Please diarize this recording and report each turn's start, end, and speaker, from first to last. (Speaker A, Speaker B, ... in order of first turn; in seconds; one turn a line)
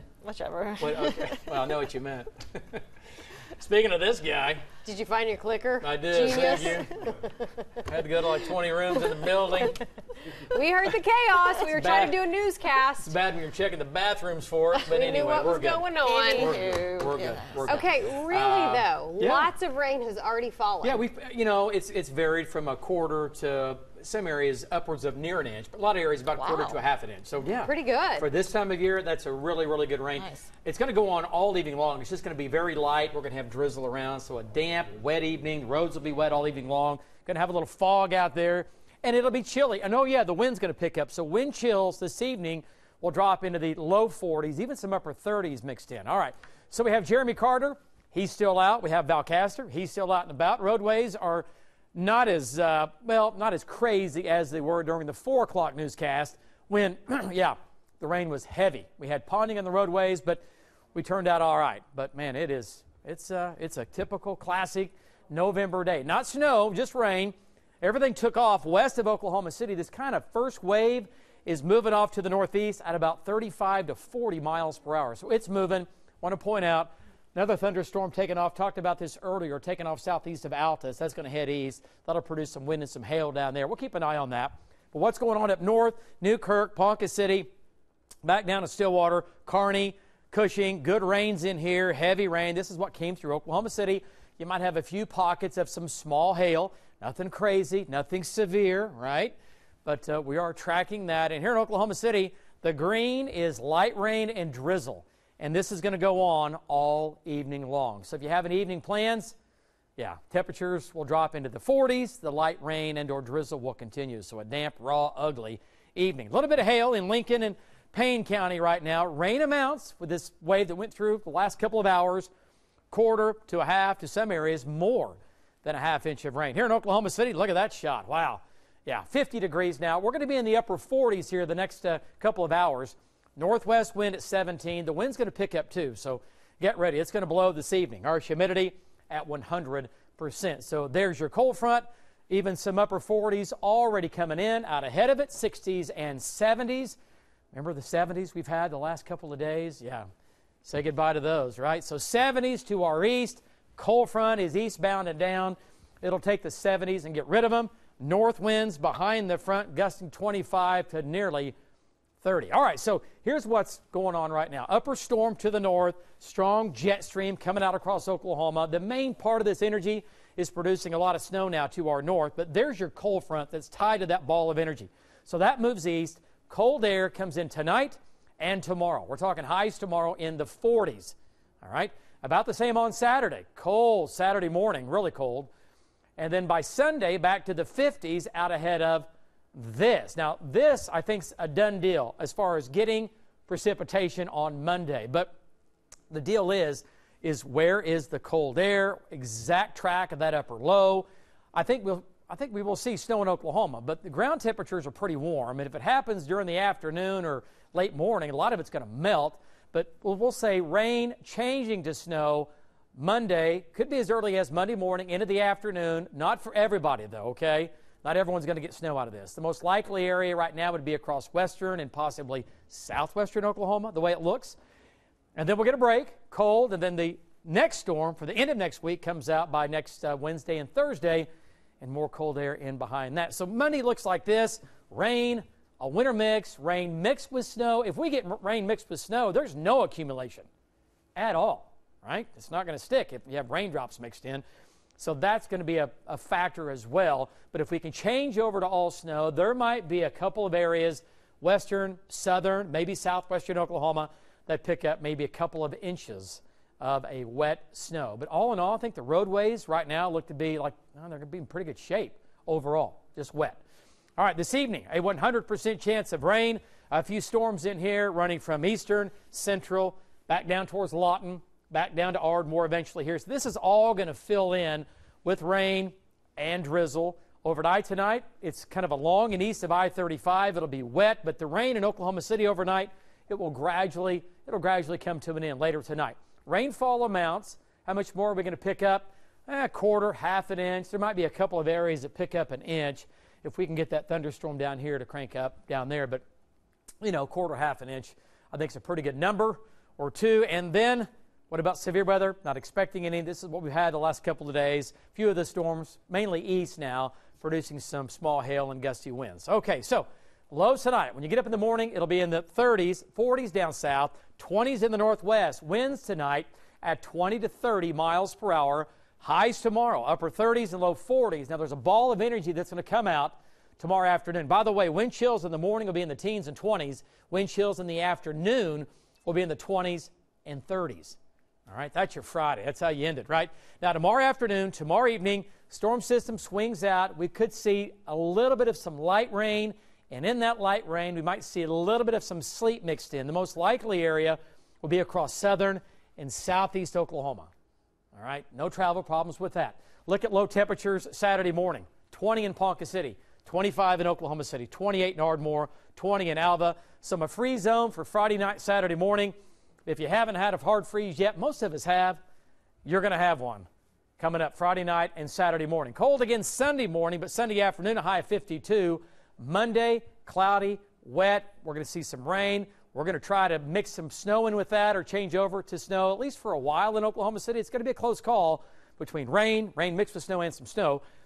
Speaker A: 0.2-1.6
Speaker B: 0.8-2.8
Speaker B: 3.4-4.7
Speaker C: 4.8-7.5
Speaker B: 5.8-7.1
Speaker B: 7.8-9.8
Speaker C: 10.3-13.2
Speaker B: 11.7-12.2
Speaker B: 13.0-19.5
Speaker C: 14.8-16.6
Speaker A: 16.0-17.8
Speaker C: 17.6-21.0
Speaker B: 20.8-60.4
Speaker A: 26.4-26.8
Speaker C: 27.4-28.3
Speaker A: 30.2-30.4
Speaker B: 60.9-87.5
Speaker B: 88.2-109.4
Speaker B: 110.0-122.3
Speaker B: 122.9-147.0
Speaker B: 147.5-150.1
Speaker B: 150.6-161.5
Speaker B: 162.2-185.5
Speaker B: 186.2-195.3
Speaker B: 196.1-224.6
Speaker B: 225.3-231.3
Speaker B: 231.8-240.5
Speaker B: 241.1-244.4
Speaker B: 245.0-263.6
Speaker B: 264.2-296.2
Speaker B: 297.0-347.5
Speaker B: 348.1-359.3
Speaker B: 359.9-362.2
Speaker B: 362.8-381.0